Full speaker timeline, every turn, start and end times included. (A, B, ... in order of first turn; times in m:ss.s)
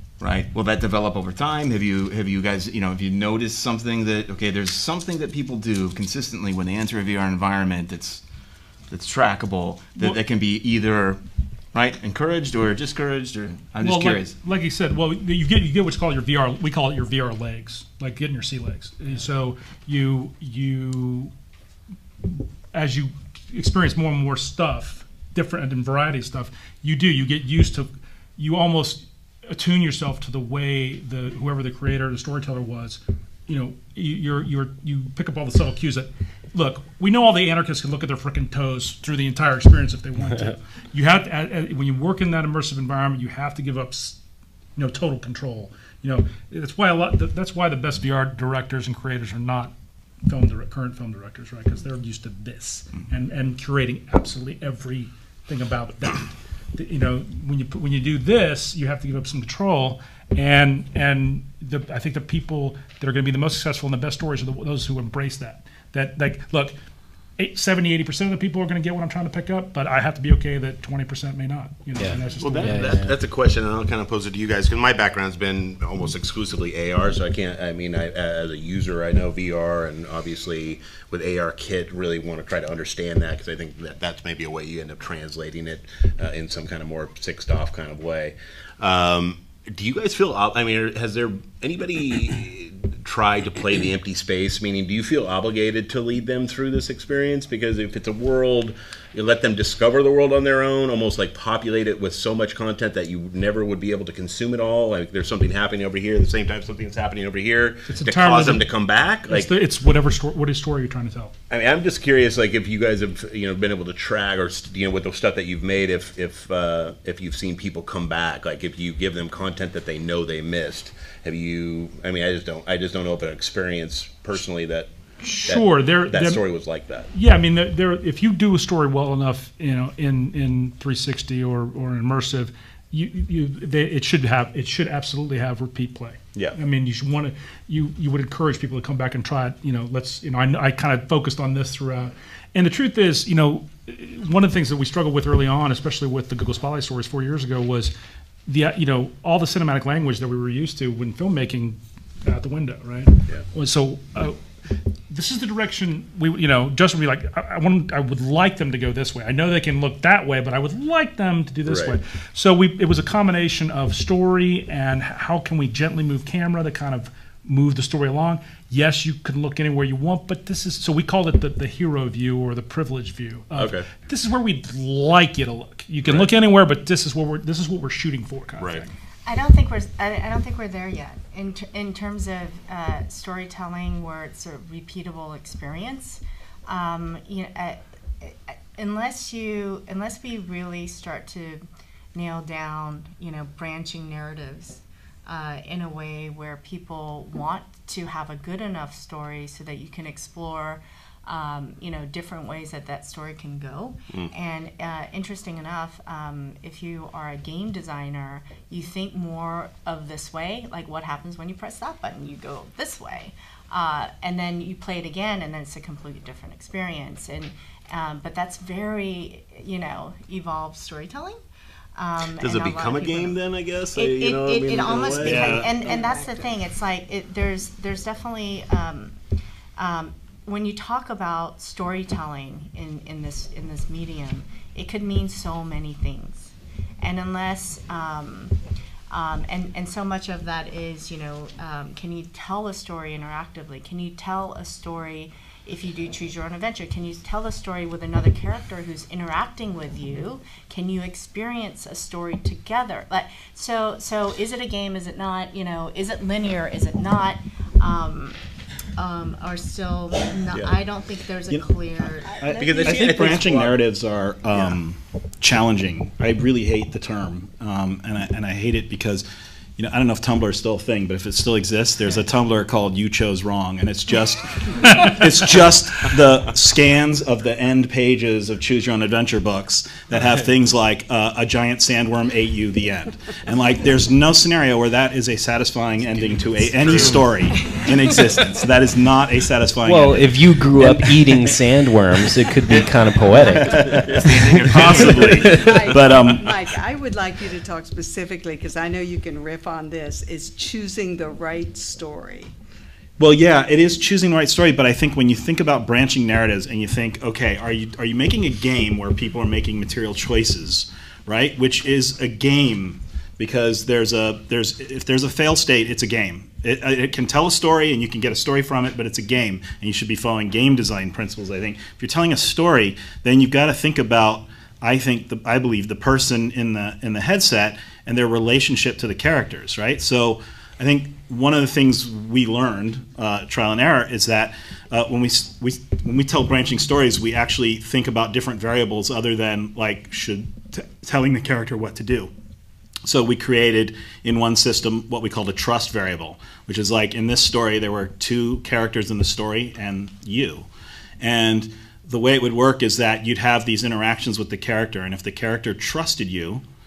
0:00.2-0:08.2 A
0:08.9-0:11.2 A
0:11.7-0:14.3 A
0:13.8-0:21.3 B
0:22.2-0:44.2 B
0:44.8-0:49.7 B
0:50.2-1:06.7 B
1:07.4-1:13.0 B
1:12.0-1:13.1 C
1:12.4-1:49.5 D
1:47.9-1:48.7 B
1:49.2-1:51.3 B
1:51.5-2:07.1 D
2:05.2-2:06.4 B
2:07.1-2:27.9 B
2:28.4-2:58.9 B
2:41.6-2:42.0 D
2:53.5-2:53.9 D
2:58.6-2:58.8 D
2:59.2-3:11.6 E
3:12.1-3:41.4 E
3:42.0-3:43.4 E
3:42.4-3:46.4 D
3:43.9-3:49.1 E
3:45.2-3:45.7 F
3:49.8-3:58.5 E
3:59.1-4:18.4 E
4:19.0-4:22.5 E
4:22.3-4:29.2 F
4:22.4-4:22.8 G
4:22.5-4:23.8 D
4:24.5-4:24.8 D
4:29.8-4:51.2 F
4:46.2-4:47.4 D
4:49.8-4:55.5 C
4:53.8-4:54.2 F
4:53.9-4:55.7 A
4:54.7-4:56.6 F
4:55.2-5:02.5 G
5:03.2-5:42.3 F
5:43.0-5:50.7 F
5:51.2-5:56.6 F